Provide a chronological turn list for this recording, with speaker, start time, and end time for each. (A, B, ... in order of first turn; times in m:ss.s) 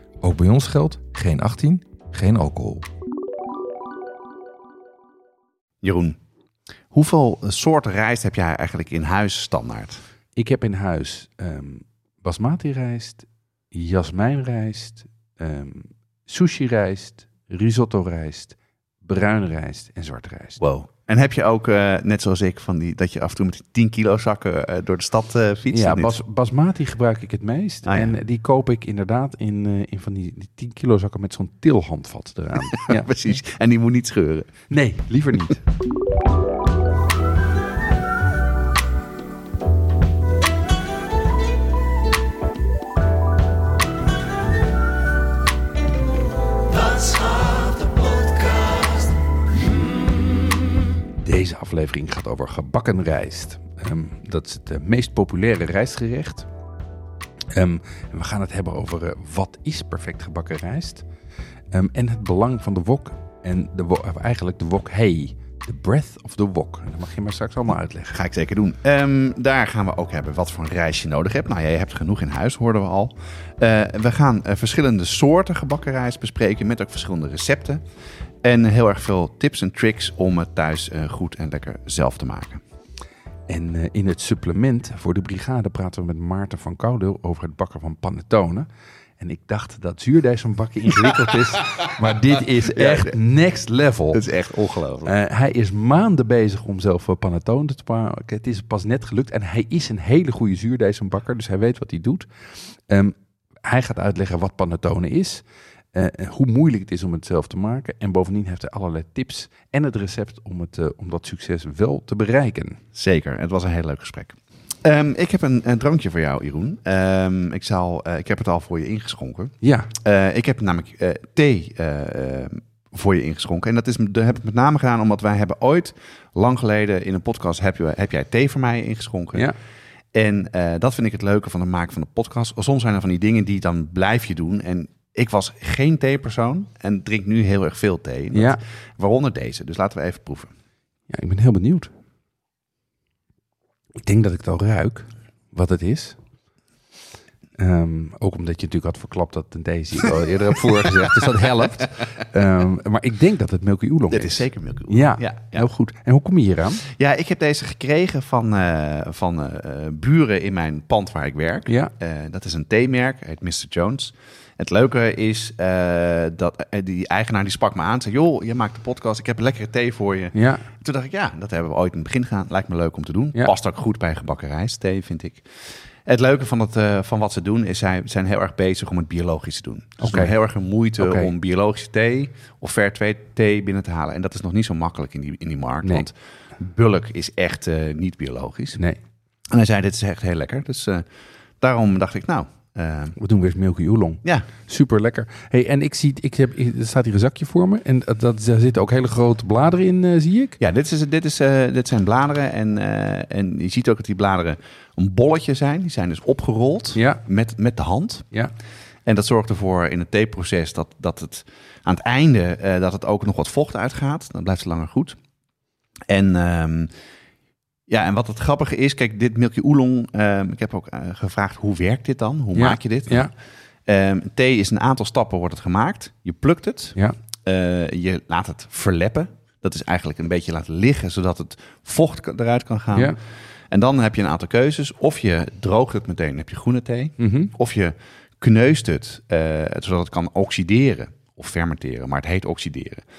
0:00.2-0:02.9 A
0:05.8-0:06.2 B
0:06.9-0:10.0 B
0:10.4-0:20.6 A
0:20.6-0:26.2 B
0:25.7-0:33.1 A
0:27.8-0:28.2 B
0:32.7-0:34.7 B
0:34.7-0:35.6 A
0:47.1-0:49.0 A
0:51.2-0:56.5 A
0:57.5-1:01.1 A
1:01.7-1:08.2 A
1:08.1-1:17.8 B
1:18.4-1:22.6 B
1:23.5-1:28.7 A
1:29.2-1:34.3 A
1:32.6-1:33.2 B
1:34.1-1:35.1 B
1:35.0-1:52.8 A
1:53.0-2:09.5 B
1:59.6-1:59.9 A
2:10.1-2:20.5 B
2:18.3-2:18.6 A
2:21.1-2:21.9 A
2:24.0-2:26.2 A
2:27.6-2:36.8 A
2:31.9-2:32.2 B
2:34.1-2:35.7 B
2:36.8-2:55.5 B
2:41.7-2:41.9 A
2:50.4-2:50.7 A
2:56.0-3:08.8 B
3:00.0-3:00.3 A
3:01.0-3:01.3 A
3:09.5-3:11.0 B
3:11.6-3:13.2 B
3:13.2-3:20.6 A
3:20.6-3:28.3 B
3:27.0-3:27.2 A
3:29.1-3:35.2 B
3:36.1-3:36.9 B
3:37.9-3:43.3 B
3:42.6-3:43.3 A
3:43.9-3:53.2 B
3:53.7-4:03.0 B
3:57.2-3:57.5 A